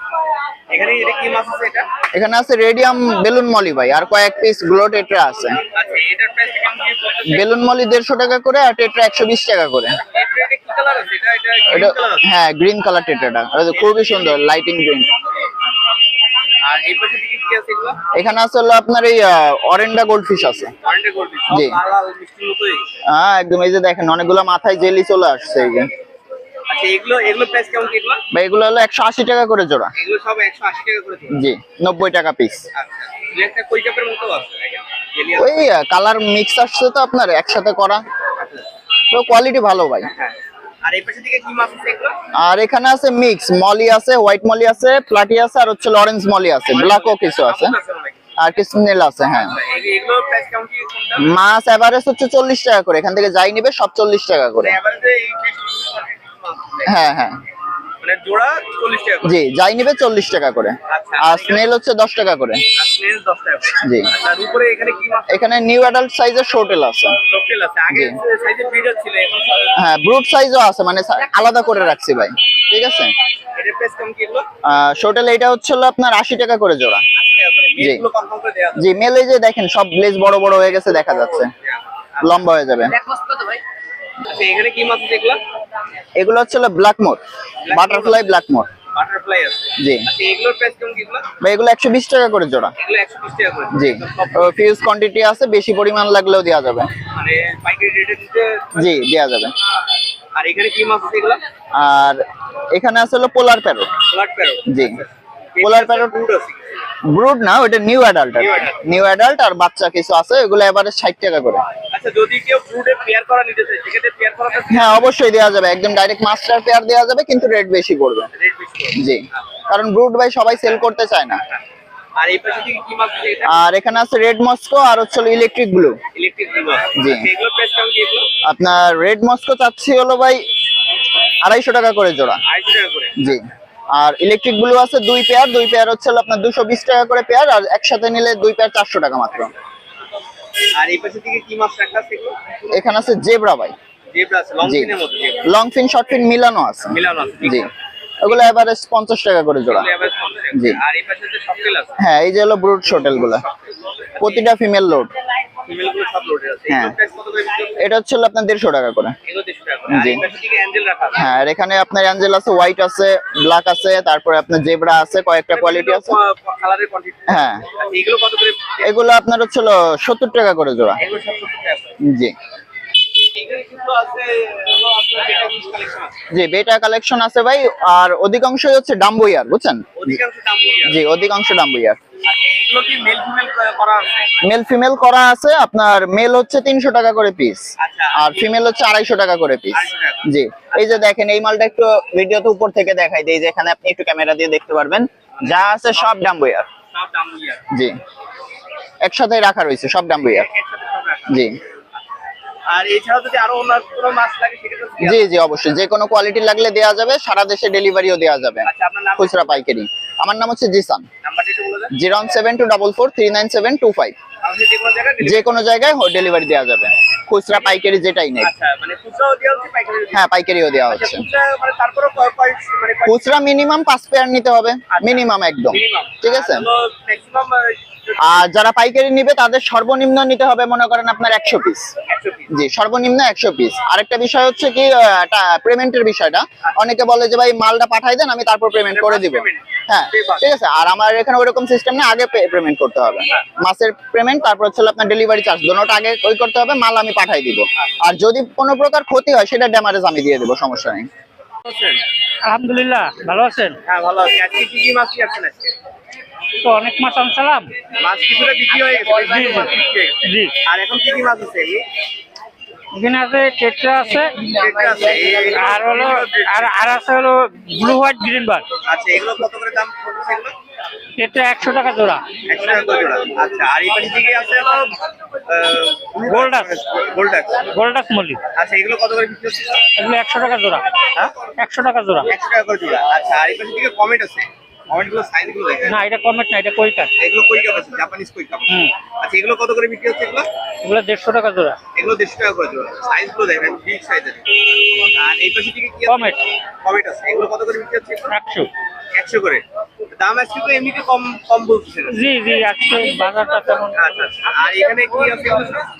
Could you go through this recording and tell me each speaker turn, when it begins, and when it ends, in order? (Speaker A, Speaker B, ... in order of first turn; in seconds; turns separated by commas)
Speaker A: 0.7-1.9, Speaker B: 2.1-5.6, Speaker A: 5.7-7.5, Speaker B: 7.2-10.0, Speaker A: 10.1-12.2, Speaker B: 11.7-15.1, Speaker A: 13.7-14.1, Speaker A: 16.6-18.0, Speaker B: 18.1-20.7, Speaker A: 20.8-22.9, Speaker B: 21.5-21.8, Speaker B: 23.1-25.9, Speaker A: 26.7-28.2, Speaker B: 28.3-29.9, Speaker A: 30.0-31.4, Speaker B: 31.3-32.6, Speaker A: 32.7-35.7, Speaker B: 35.4-38.0, Speaker A: 38.4-38.6, Speaker B: 39.1-40.1, Speaker A: 40.1-42.2, Speaker B: 42.4-47.7, Speaker A: 46.7-48.2, Speaker B: 48.4-49.6, Speaker A: 49.4-51.3, Speaker B: 51.2-54.8, Speaker A: 54.6-57.1, Speaker B: 56.8-57.4, Speaker A: 58.0-59.3, Speaker B: 59.2-62.6, Speaker A: 60.9-61.7, Speaker A: 62.8-65.4, Speaker B: 63.8-64.1, Speaker B: 65.3-67.2, Speaker A: 67.3-69.8, Speaker B: 67.9-68.2, Speaker B: 69.8-73.1, Speaker A: 73.5-74.5, Speaker B: 74.6-77.0, Speaker A: 77.2-78.9, Speaker B: 77.8-78.0, Speaker B: 78.8-81.5, Speaker A: 81.6-82.4, Speaker B: 82.2-83.0, Speaker A: 84.3-85.4, Speaker B: 86.2-88.7, Speaker A: 87.6-88.3, Speaker A: 88.9-91.3, Speaker B: 89.8-90.0, Speaker B: 91.4-92.7, Speaker A: 92.8-94.5, Speaker B: 93.7-96.9, Speaker A: 97.1-99.0, Speaker B: 98.8-99.5, Speaker A: 100.3-101.4, Speaker B: 101.7-103.9, Speaker A: 104.1-106.9, Speaker B: 104.7-105.0, Speaker B: 105.6-106.1, Speaker B: 107.1-111.6, Speaker A: 108.4-108.8, Speaker A: 111.9-115.0, Speaker B: 114.7-118.3, Speaker A: 118.3-119.0, Speaker B: 119.0-121.4, Speaker A: 122.2-123.5, Speaker B: 123.5-126.0, Speaker A: 126.1-128.3, Speaker B: 127.0-127.3, Speaker B: 128.4-130.4, Speaker B: 131.4-132.4, Speaker A: 132.4-133.2, Speaker B: 133.2-139.5, Speaker A: 140.8-142.4, Speaker B: 142.7-143.7, Speaker A: 144.1-145.5, Speaker B: 144.6-144.9, Speaker B: 145.4-147.7, Speaker A: 146.9-147.7, Speaker B: 148.2-149.9, Speaker A: 149.7-152.0, Speaker B: 150.5-150.8, Speaker B: 152.0-153.4, Speaker A: 152.9-154.5, Speaker B: 154.2-155.1, Speaker A: 155.6-157.8, Speaker B: 156.7-156.9, Speaker B: 157.8-159.2, Speaker A: 159.2-161.2, Speaker B: 159.9-160.2, Speaker B: 161.2-166.2, Speaker A: 165.5-168.8, Speaker B: 167.3-167.6, Speaker B: 168.8-171.0, Speaker A: 171.0-172.0, Speaker B: 172.0-172.3, Speaker A: 173.3-176.1, Speaker B: 176.3-180.2, Speaker A: 180.0-181.0, Speaker B: 180.8-182.0, Speaker A: 182.2-184.4, Speaker B: 184.4-196.7, Speaker A: 187.8-188.3, Speaker A: 189.7-190.2, Speaker A: 196.9-197.6, Speaker B: 199.0-200.5, Speaker A: 200.3-201.6, Speaker B: 201.3-201.5, Speaker A: 202.7-205.2, Speaker B: 205.0-208.7, Speaker A: 208.6-209.6, Speaker B: 209.2-211.0, Speaker A: 211.2-211.9, Speaker B: 211.9-214.1, Speaker A: 214.4-215.5, Speaker B: 215.2-218.5, Speaker A: 218.4-220.2, Speaker B: 220.1-221.2, Speaker A: 220.9-223.3, Speaker B: 223.1-226.7, Speaker A: 224.9-228.4, Speaker B: 228.2-231.9, Speaker A: 232.1-232.5, Speaker B: 232.5-251.1, Speaker A: 238.9-240.5, Speaker A: 251.6-252.0, Speaker C: 252.4-253.8, Speaker A: 253.8-255.7, Speaker C: 256.6-257.7, Speaker A: 258.0-261.8, Speaker C: 259.2-259.7, Speaker C: 260.2-260.5, Speaker C: 262.9-264.5, Speaker A: 264.4-266.8, Speaker C: 265.5-268.7, Speaker A: 268.9-270.5, Speaker C: 271.2-272.2, Speaker A: 272.4-277.7, Speaker C: 276.3-276.8, Speaker C: 277.7-278.4, Speaker A: 278.5-279.8, Speaker C: 279.9-280.8, Speaker C: 281.6-282.3, Speaker A: 282.2-286.0, Speaker C: 285.9-287.1, Speaker A: 287.2-290.5, Speaker C: 290.8-291.8, Speaker A: 291.9-298.3, Speaker C: 296.1-296.4, Speaker C: 298.3-298.7, Speaker A: 299.1-302.2, Speaker C: 302.1-303.9, Speaker A: 303.9-305.9